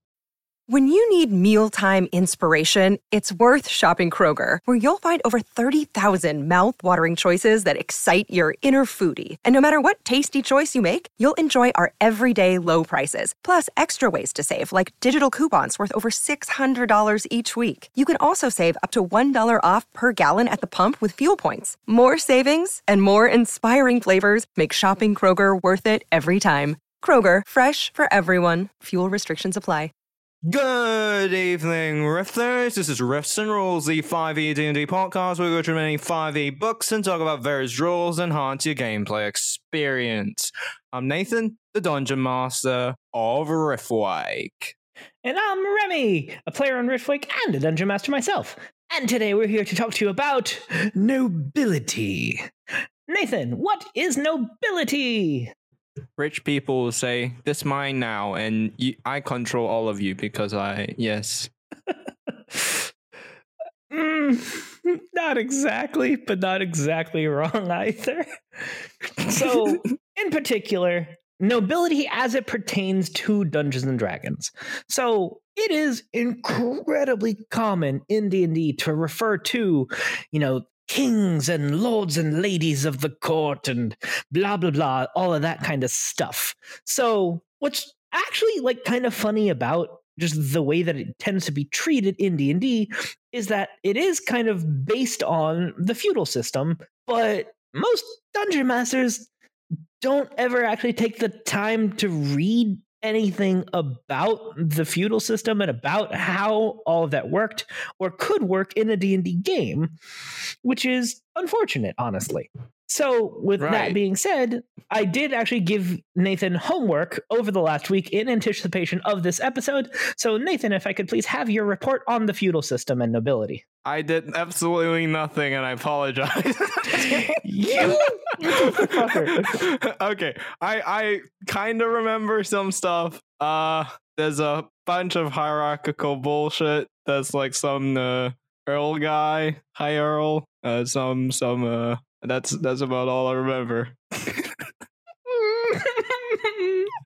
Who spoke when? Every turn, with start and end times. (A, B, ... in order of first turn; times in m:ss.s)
0:00.7-0:29.9 A
0:30.4-0:44.7 B
0:45.2-0:52.5 C
0:53.1-0:55.5 C
0:56.2-1:01.5 B
1:01.9-1:02.8 C
1:03.9-1:39.3 C
1:40.0-1:49.9 C
1:50.6-2:03.6 C
1:53.6-1:54.0 B
2:03.8-2:24.5 B
2:07.1-2:09.5 C
2:25.3-2:26.9 C